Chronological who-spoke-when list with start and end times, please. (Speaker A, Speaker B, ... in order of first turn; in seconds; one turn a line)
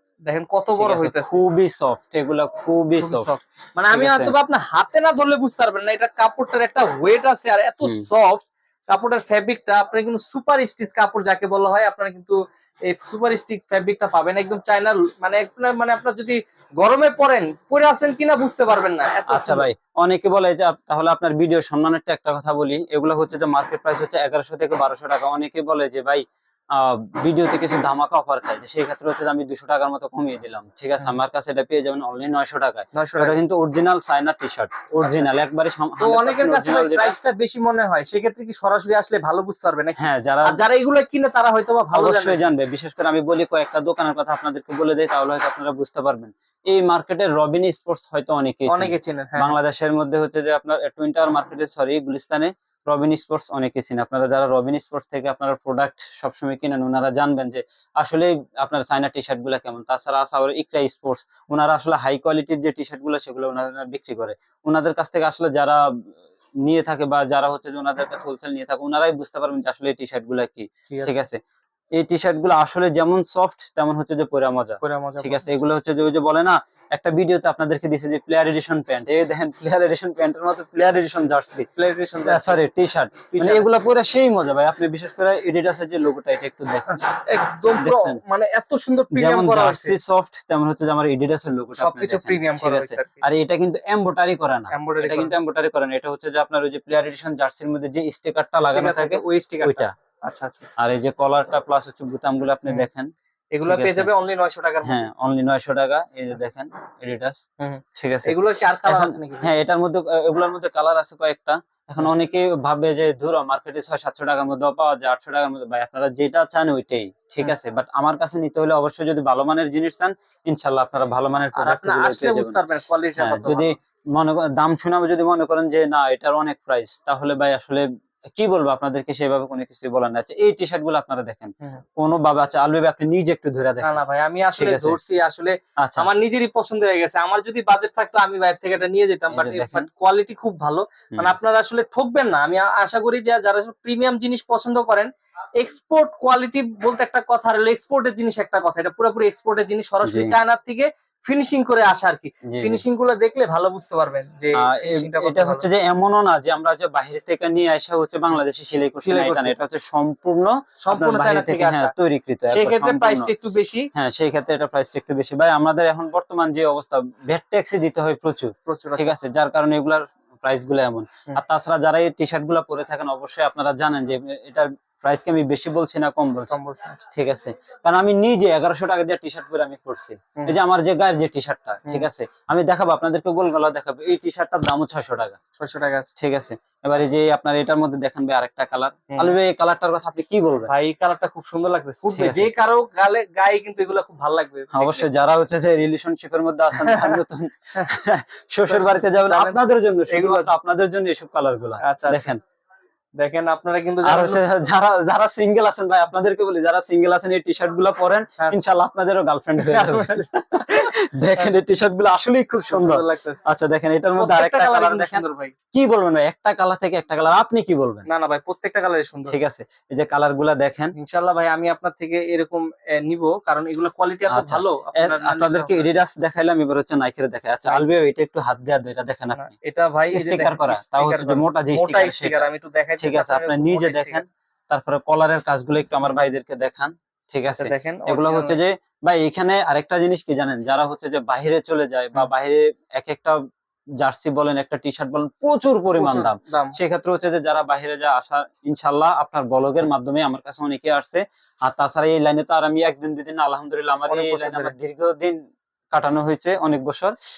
Speaker A: 0.3-1.4
Speaker B: 0.7-3.3
Speaker A: 3.0-19.7
Speaker B: 3.9-4.3
Speaker B: 19.3-37.2
Speaker A: 32.9-33.4
Speaker A: 36.0-42.5
Speaker B: 40.0-40.6
Speaker B: 41.9-65.8
Speaker A: 48.7-49.6
Speaker B: 66.6-71.4
Speaker A: 70.9-71.2
Speaker B: 72.0-81.7
Speaker A: 74.8-75.5
Speaker A: 81.8-82.6
Speaker B: 82.2-86.9
Speaker A: 83.3-83.7
Speaker A: 86.9-90.0
Speaker B: 87.7-88.2
Speaker B: 89.1-99.9
Speaker A: 91.8-93.2
Speaker A: 94.7-95.3
Speaker A: 98.7-100.8
Speaker B: 100.8-103.1
Speaker A: 103.5-105.0
Speaker B: 103.6-104.1
Speaker B: 104.8-107.4
Speaker A: 107.6-109.5
Speaker B: 108.0-122.7
Speaker A: 121.6-123.8
Speaker B: 123.2-134.0
Speaker A: 133.8-155.7
Speaker B: 134.6-135.0
Speaker B: 135.8-136.1
Speaker B: 139.3-139.9
Speaker B: 150.1-150.3
Speaker B: 152.5-152.8
Speaker B: 154.6-163.3
Speaker A: 159.0-159.6
Speaker A: 160.8-161.9
Speaker A: 162.5-163.9
Speaker B: 163.9-176.6
Speaker A: 168.7-169.1
Speaker A: 176.5-177.1
Speaker B: 177.1-185.4
Speaker A: 185.6-186.1
Speaker B: 186.2-190.7
Speaker A: 190.7-195.1
Speaker B: 192.1-192.5
Speaker B: 194.7-202.4
Speaker A: 196.7-197.2
Speaker A: 198.7-200.5
Speaker A: 201.8-202.3
Speaker A: 203.2-204.4
Speaker B: 204.1-218.1
Speaker A: 209.6-210.3
Speaker A: 212.7-213.4
Speaker A: 214.2-215.6
Speaker A: 218.1-219.4
Speaker B: 219.3-220.9
Speaker A: 221.0-225.9
Speaker B: 224.3-229.5
Speaker A: 229.3-234.2
Speaker B: 230.1-232.5
Speaker B: 233.0-243.4
Speaker A: 237.6-238.6
Speaker B: 244.0-255.4
Speaker A: 246.0-246.8
Speaker A: 254.1-254.7
Speaker B: 255.9-257.1